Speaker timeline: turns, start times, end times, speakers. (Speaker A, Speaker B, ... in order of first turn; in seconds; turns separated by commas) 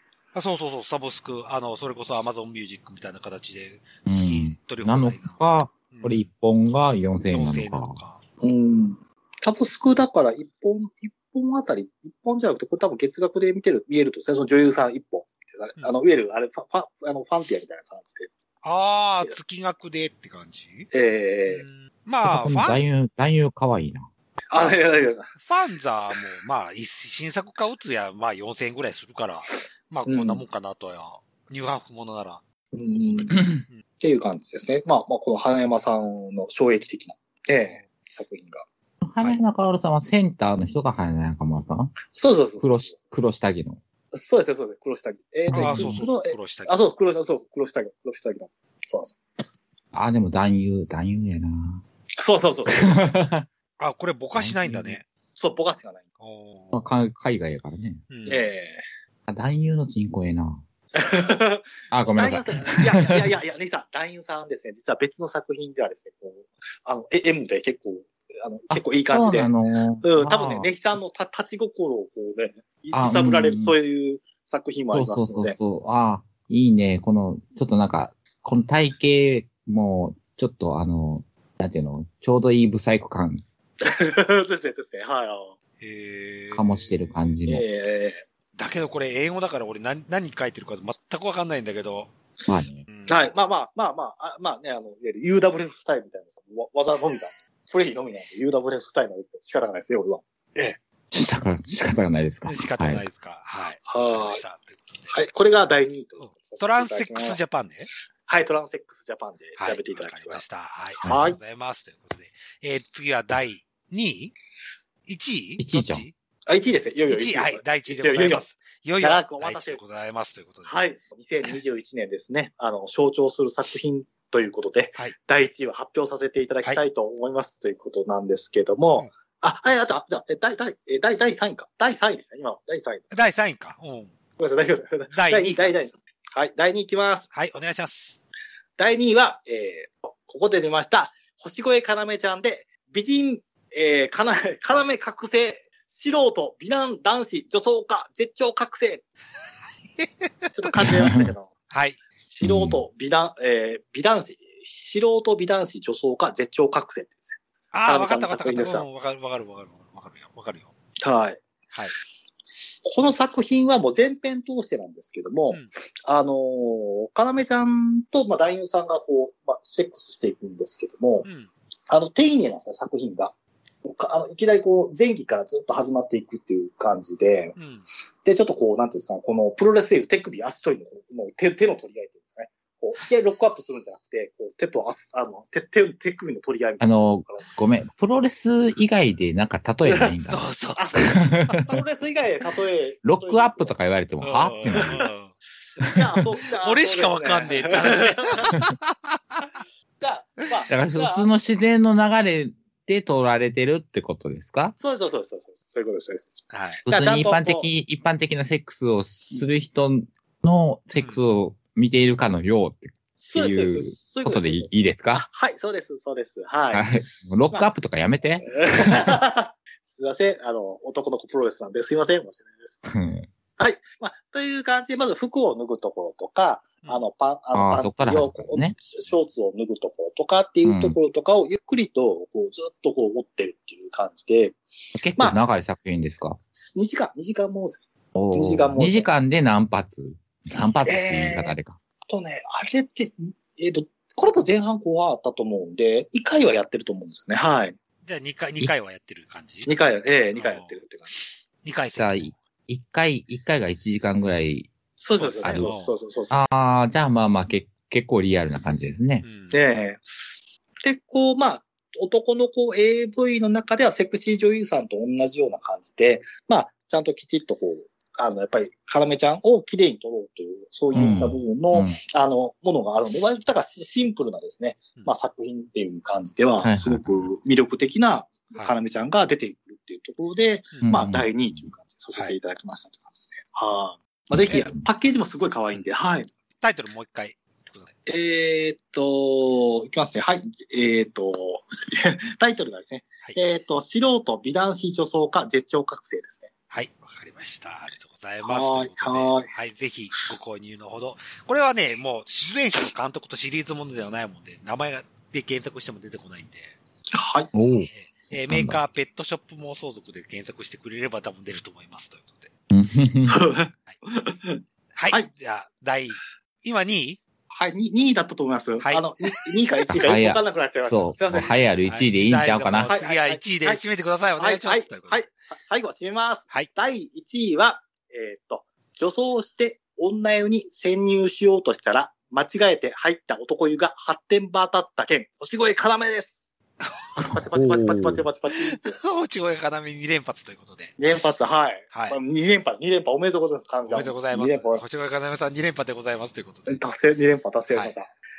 Speaker A: 0.3-5.4, Speaker B: 4.0-8.0, Speaker A: 5.9-6.3, Speaker A: 7.3-8.2, Speaker C: 8.4-18.3, Speaker A: 18.6-20.9, Speaker C: 20.9-21.6, Speaker A: 21.5-22.8, Speaker B: 22.2-24.1, Speaker C: 24.5-25.3, Speaker A: 25.4-33.8, Speaker C: 30.1-30.4, Speaker C: 32.7-33.4, Speaker B: 33.3-33.6, Speaker C: 34.0-38.6, Speaker A: 37.6-37.9, Speaker B: 39.0-42.0, Speaker C: 42.1-43.1, Speaker B: 42.6-43.8, Speaker C: 44.1-49.2, Speaker B: 45.5-46.1, Speaker A: 45.5-46.8, Speaker B: 49.9-51.8, Speaker C: 52.2-53.1, Speaker B: 52.7-53.5, Speaker A: 53.8-55.0, Speaker B: 54.4-55.0, Speaker C: 55.3-56.0, Speaker A: 56.2-56.9, Speaker B: 56.7-58.0, Speaker A: 58.1-58.4, Speaker C: 58.3-58.8, Speaker B: 59.3-60.6, Speaker C: 60.9-69.5, Speaker B: 61.9-63.3, Speaker B: 68.7-70.7, Speaker C: 70.0-75.6, Speaker B: 72.9-73.8, Speaker B: 74.9-83.4, Speaker C: 83.8-85.5, Speaker A: 85.8-87.1, Speaker B: 86.5-87.6, Speaker C: 87.5-88.2, Speaker A: 88.5-92.1, Speaker B: 92.5-92.8, Speaker A: 92.9-93.3, Speaker C: 93.1-100.8, Speaker B: 101.1-103.0, Speaker A: 102.4-105.1, Speaker C: 103.9-104.4, Speaker C: 105.1-107.4, Speaker A: 106.2-107.9, Speaker C: 108.2-110.4, Speaker A: 109.6-114.3, Speaker B: 111.0-111.3, Speaker C: 111.0-111.4, Speaker A: 115.0-116.1, Speaker B: 115.6-116.0, Speaker C: 116.5-118.5, Speaker A: 117.1-120.7, Speaker C: 119.0-119.8, Speaker C: 120.7-133.1, Speaker A: 133.1-134.1, Speaker C: 134.4-137.3, Speaker A: 135.1-135.8, Speaker A: 137.3-138.2, Speaker C: 138.8-149.0, Speaker A: 150.0-150.7, Speaker C: 150.5-151.5, Speaker B: 150.8-151.3, Speaker A: 151.7-152.0, Speaker C: 152.3-158.8, Speaker B: 152.4-152.8, Speaker A: 157.7-160.7, Speaker C: 161.0-161.4, Speaker C: 162.8-171.3, Speaker A: 171.2-171.5, Speaker C: 171.9-177.6, Speaker A: 177.6-177.8, Speaker C: 178.2-187.6, Speaker B: 186.8-190.4, Speaker C: 189.9-190.2, Speaker A: 190.3-191.2, Speaker C: 190.8-193.7, Speaker B: 190.9-191.8, Speaker B: 193.0-195.0, Speaker A: 194.2-195.3, Speaker C: 194.7-195.1, Speaker C: 195.8-198.5, Speaker A: 196.6-199.5, Speaker C: 200.0-201.3, Speaker B: 200.7-204.7, Speaker C: 204.8-207.7, Speaker A: 206.5-206.8, Speaker B: 206.8-215.2, Speaker C: 213.2-216.8, Speaker B: 216.7-219.1, Speaker C: 218.4-222.8, Speaker B: 222.9-223.3, Speaker C: 223.6-234.6, Speaker B: 227.5-228.7, Speaker B: 230.6-230.9, Speaker B: 234.9-236.4, Speaker C: 236.5-239.1, Speaker B: 238.1-241.8, Speaker C: 240.8-241.5, Speaker C: 242.1-247.8, Speaker A: 248.0-249.7, Speaker C: 249.6-251.2, Speaker A: 250.3-250.8, Speaker A: 251.6-252.3, Speaker B: 251.9-254.7, Speaker C: 255.0-256.5, Speaker A: 255.2-255.9, Speaker B: 255.4-255.7, Speaker B: 256.3-259.2, Speaker A: 259.2-259.6, Speaker C: 259.5-260.0, Speaker C: 260.8-286.3, Speaker B: 270.9-272.0, Speaker B: 276.6-277.3, Speaker B: 280.8-281.6, Speaker A: 286.6-287.9, Speaker C: 288.1-296.5, Speaker A: 296.7-306.7, Speaker C: 298.4-299.5, Speaker C: 307.1-307.5, Speaker B: 307.5-308.8, Speaker A: 307.9-312.5, Speaker B: 312.7-313.4, Speaker C: 313.2-315.3, Speaker A: 314.9-317.2, Speaker C: 317.5-321.6, Speaker A: 318.8-319.9, Speaker B: 320.0-322.9, Speaker A: 321.8-325.2, Speaker C: 322.9-323.8, Speaker C: 324.4-336.5, Speaker C: 337.2-339.0, Speaker B: 337.2-338.2, Speaker A: 338.6-340.9, Speaker C: 341.0-344.8, Speaker A: 343.9-346.8, Speaker C: 346.7-348.1